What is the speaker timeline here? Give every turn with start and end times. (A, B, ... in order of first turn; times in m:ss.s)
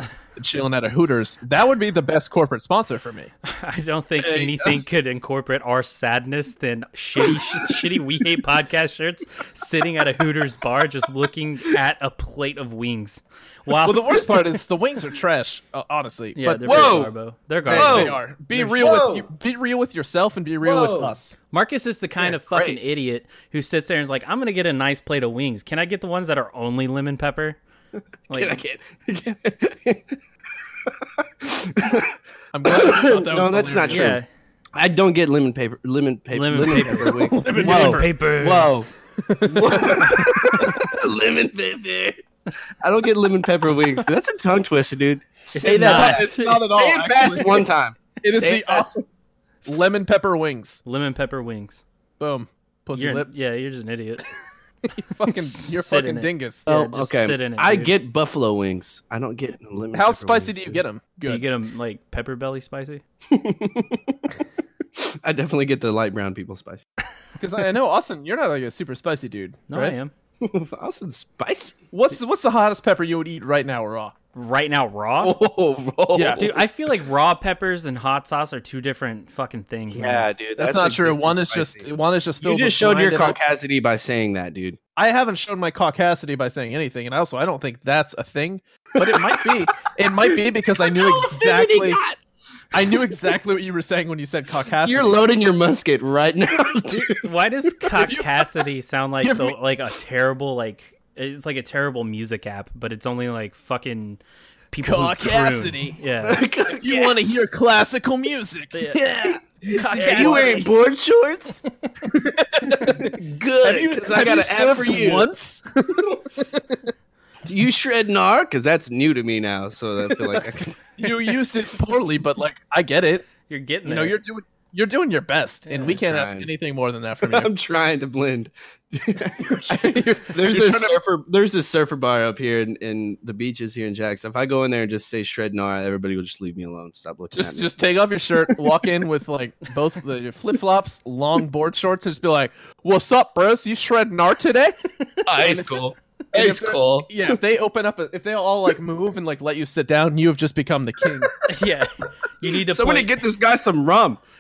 0:00.4-0:03.3 A
0:03.4-0:14.4 B
0:04.2-0:04.8 C
0:13.8-0:17.1 A
0:16.4-0:18.2 B
0:16.7-0:17.1 C
0:17.7-0:21.4 A
0:17.7-0:19.3 C
0:20.6-0:21.1 C
0:21.5-0:27.6 B
0:22.2-0:22.8 A
0:28.3-0:28.6 B
0:28.3-0:30.2 C
0:31.4-0:32.2 C
0:32.5-0:34.2 A
0:32.7-0:34.2 C
0:33.9-0:34.2 B
0:34.8-0:38.9 C
0:36.3-0:39.0 B
0:36.9-0:38.1 A
0:39.2-0:40.9 A
0:39.4-0:42.2 C
0:42.8-0:48.9 C
0:45.5-0:46.7 B
0:45.6-0:47.7 A
0:48.2-0:49.1 A
0:49.7-0:50.8 A
0:50.9-0:51.8 B
0:52.2-0:53.3 A
0:52.9-0:54.3 B
0:54.9-0:56.7 A
0:55.3-0:57.9 B
0:56.7-1:00.8 C
0:59.9-1:01.4 A
1:01.2-1:03.0 B
1:03.3-1:04.2 C
1:05.0-1:06.9 C
1:07.4-1:10.0 A
1:09.7-1:10.1 B
1:10.4-1:11.8 C
1:11.9-1:14.1 A
1:14.3-1:15.4 B
1:15.2-1:16.6 C
1:16.1-1:16.6 A
1:16.4-1:20.3 B
1:19.9-1:24.8 C
1:20.6-1:23.4 A
1:25.0-1:32.0 A
1:29.1-1:29.4 C
1:30.2-1:32.2 C
1:32.7-1:35.2 A
1:34.8-1:37.2 C
1:36.9-1:46.5 B
1:38.0-1:38.3 A
1:39.2-1:39.6 A
1:44.8-1:46.0 A
1:46.2-1:47.4 C
1:46.7-1:50.7 A
1:48.7-1:49.1 B
1:49.1-1:51.6 C
1:49.7-1:50.7 B
1:52.1-1:56.9 A
1:52.7-1:55.3 C
1:57.4-2:00.9 C
2:01.0-2:03.3 A
2:03.5-2:04.2 B
2:03.8-2:07.5 A
2:05.7-2:06.0 B
2:06.0-2:06.5 C
2:07.3-2:17.7 C
2:09.4-2:11.0 A
2:17.3-2:24.8 A
2:25.2-2:27.4 C
2:25.4-2:25.6 A
2:26.3-2:31.3 A
2:31.5-2:33.1 B
2:32.5-2:34.2 C